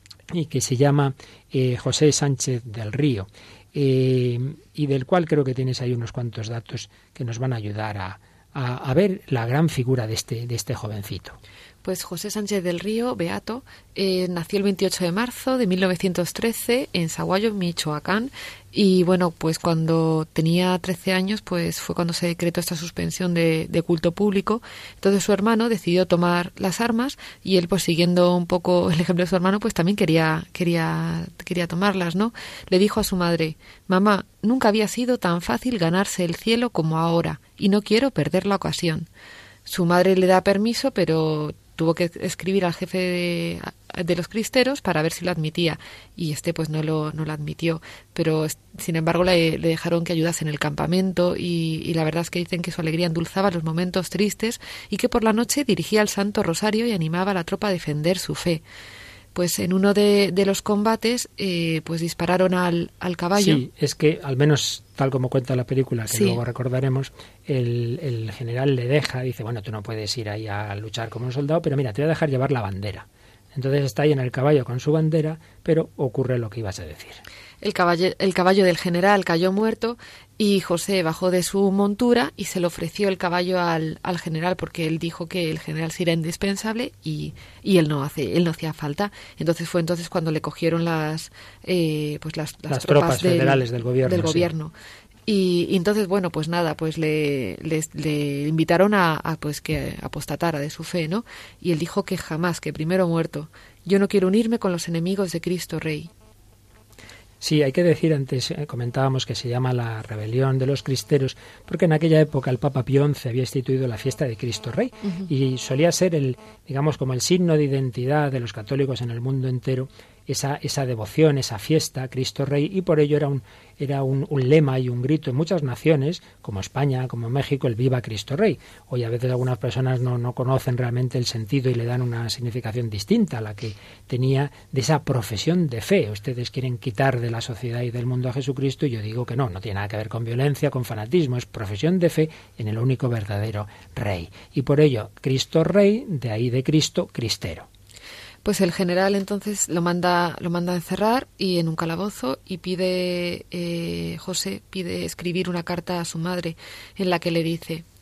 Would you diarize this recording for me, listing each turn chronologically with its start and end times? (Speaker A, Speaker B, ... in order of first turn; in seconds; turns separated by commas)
Speaker A: 0.3-11.4, Speaker B: 11.8-39.1, Speaker B: 39.7-58.6, Speaker B: 59.3-63.6, Speaker A: 63.4-77.2, Speaker B: 66.1-66.4, Speaker B: 77.6-94.7, Speaker A: 92.7-94.5, Speaker B: 95.3-106.1, Speaker A: 107.4-147.7, Speaker B: 115.0-115.3, Speaker B: 148.4-157.8